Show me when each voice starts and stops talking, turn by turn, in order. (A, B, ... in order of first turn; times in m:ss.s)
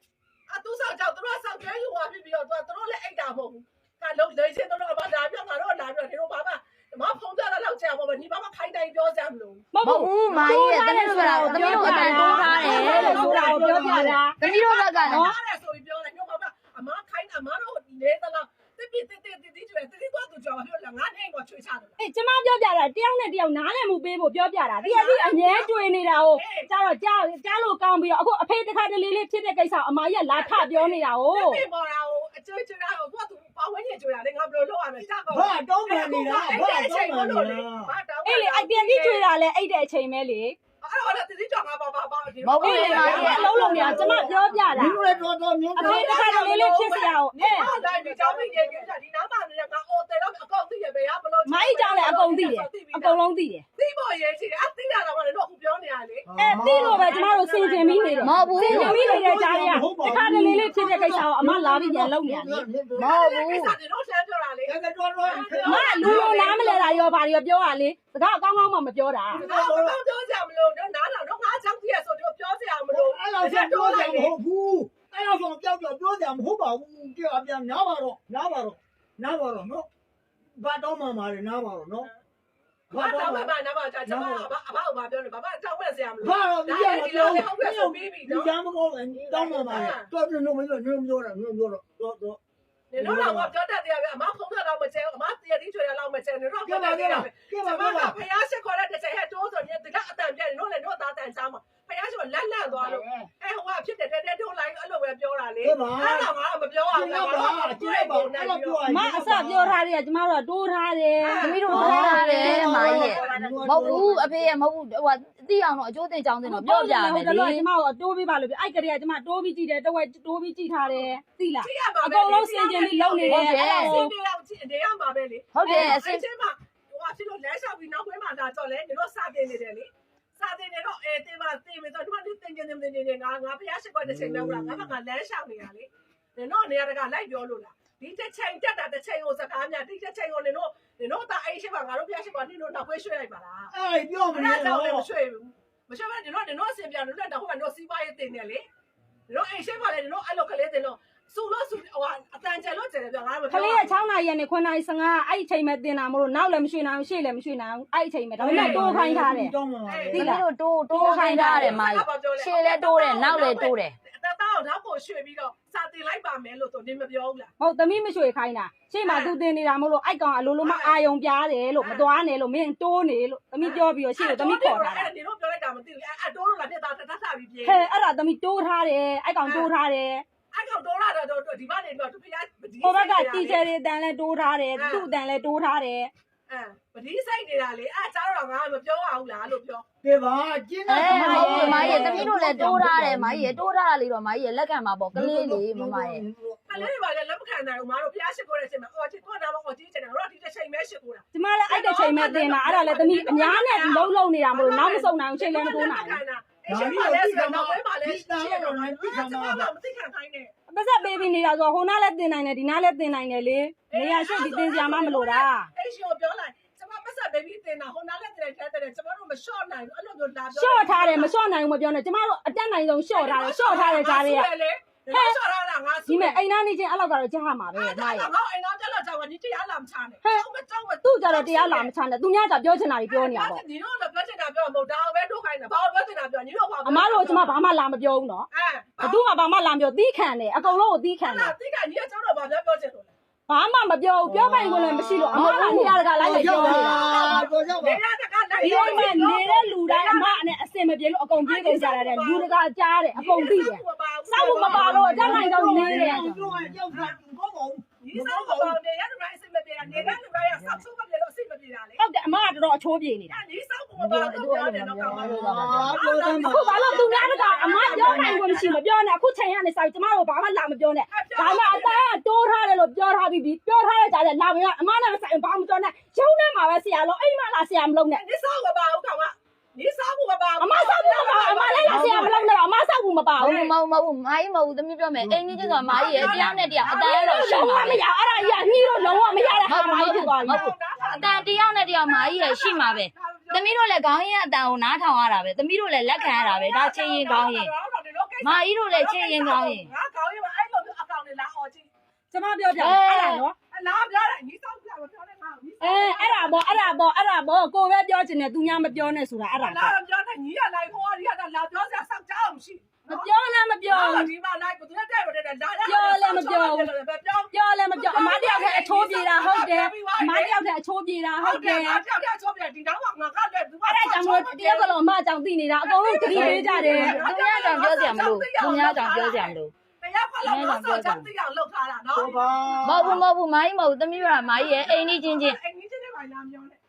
0:00.5-0:09.7 A
0:09.7-0:14.4 B
0:09.8-0:13.4 C
0:11.5-0:22.0 A
0:12.0-0:14.2 D
0:14.4-0:15.3 C
0:15.1-0:15.3 B
0:22.0-0:31.6 B
0:24.8-0:25.7 A
0:26.3-0:26.7 A
0:30.3-0:39.2 A
0:35.3-0:37.9 D
0:38.2-0:40.6 B
0:40.8-0:44.6 A
0:42.4-0:43.6 C
0:42.6-0:45.0 B
0:42.9-0:46.2 D
0:45.8-0:47.7 B
0:45.8-0:53.2 A
0:47.5-0:48.9 D
0:51.4-0:53.6 B
0:53.8-0:59.3 A
0:56.3-0:57.1 D
0:56.3-1:02.6 B
0:58.2-0:59.0 C
0:58.6-1:03.2 D
1:00.1-1:01.2 A
1:03.0-1:03.7 C
1:03.0-1:07.1 A
1:04.7-1:06.4 D
1:05.6-1:09.4 B
1:09.3-1:10.0 D
1:09.3-1:14.3 A
1:12.9-1:19.9 D
1:20.6-1:22.1 D
1:22.9-1:23.5 D
1:22.9-1:28.5 A
1:24.0-1:24.5 D
1:26.2-1:32.4 D
1:29.6-1:30.1 A
1:32.9-1:48.8 A
1:33.0-1:33.5 D
1:36.6-1:38.2 D
1:45.6-1:46.3 D
1:46.9-1:49.8 D
1:48.9-1:52.9 B
1:51.2-1:51.7 A
1:51.4-1:57.6 C
1:51.7-1:54.2 D
1:53.0-1:53.3 A
1:56.4-2:04.1 B
2:01.6-2:23.7 A
2:03.3-2:04.0 C
2:05.5-2:06.2 C
2:05.6-2:06.0 B
2:14.0-2:14.9 D
2:23.7-2:25.1 D
2:24.3-2:28.6 A
2:29.3-2:34.0 A
2:33.5-2:39.5 B
2:38.4-2:40.4 D
2:38.5-2:39.0 A
2:39.9-2:40.2 A
2:40.1-2:43.9 C
2:40.1-2:41.8 B
2:40.9-2:47.5 A
2:47.6-2:55.1 B
2:49.0-2:49.3 A
2:50.6-2:50.9 A
2:51.8-2:52.1 A
2:53.6-2:57.9 A
2:57.6-3:00.2 B
2:59.4-2:59.7 A
3:00.5-3:03.6 A
3:02.8-3:06.1 B
3:04.7-3:05.1 A
3:06.5-3:09.8 A
3:10.0-3:13.6 D
3:10.9-3:16.2 C
3:11.0-3:12.3 B
3:11.6-3:12.2 A
3:15.1-3:16.9 D
3:16.7-3:31.3 A
3:21.3-3:26.2 B
3:26.7-3:29.7 D
3:30.7-3:35.7 B
3:33.9-3:41.3 A
3:40.5-3:44.5 B
3:43.1-3:46.4 A
3:45.1-3:45.4 B
3:46.1-3:48.3 B
3:47.7-3:51.9 A
3:51.0-3:53.6 B
3:53.1-3:57.5 A
3:56.8-3:58.5 B
3:58.5-3:59.2 A
3:59.0-4:01.5 B
4:00.6-4:03.1 A
4:03.5-4:07.2 B
4:04.2-4:05.6 D
4:05.3-4:06.0 C
4:06.2-4:08.0 D
4:06.4-4:10.4 A
4:08.6-4:16.2 B
4:11.4-4:12.5 A
4:13.2-4:16.0 A
4:14.4-4:18.8 D
4:15.9-4:16.7 C
4:18.0-4:22.0 A
4:22.0-4:23.4 B
4:23.3-4:28.8 A
4:24.0-4:26.0 C
4:25.1-4:27.0 D
4:26.3-4:38.2 B
4:27.9-4:28.4 D
4:31.1-4:32.0 A
4:38.1-4:42.5 A
4:40.6-4:43.7 B
4:41.8-4:42.3 C
4:43.4-4:48.0 C
4:45.2-4:46.9 D
4:45.9-4:51.5 A
4:47.1-4:50.6 B
4:49.6-4:57.7 C
4:52.0-4:53.7 A
4:56.1-5:01.9 A
4:58.4-4:59.9 C
5:02.3-5:03.5 B
5:02.8-5:03.4 C
5:03.7-5:07.0 A
5:05.8-5:09.9 B
5:09.6-5:13.3 A
5:13.0-5:14.3 B
5:13.9-5:20.5 A
5:15.8-5:16.9 B
5:17.5-5:22.0 B
5:21.4-5:24.9 A
5:23.8-5:27.2 B
5:25.8-5:32.4 A
5:26.3-5:29.7 C
5:30.4-5:31.3 C
5:32.1-5:33.2 D
5:32.8-5:35.6 C
5:34.4-5:36.8 A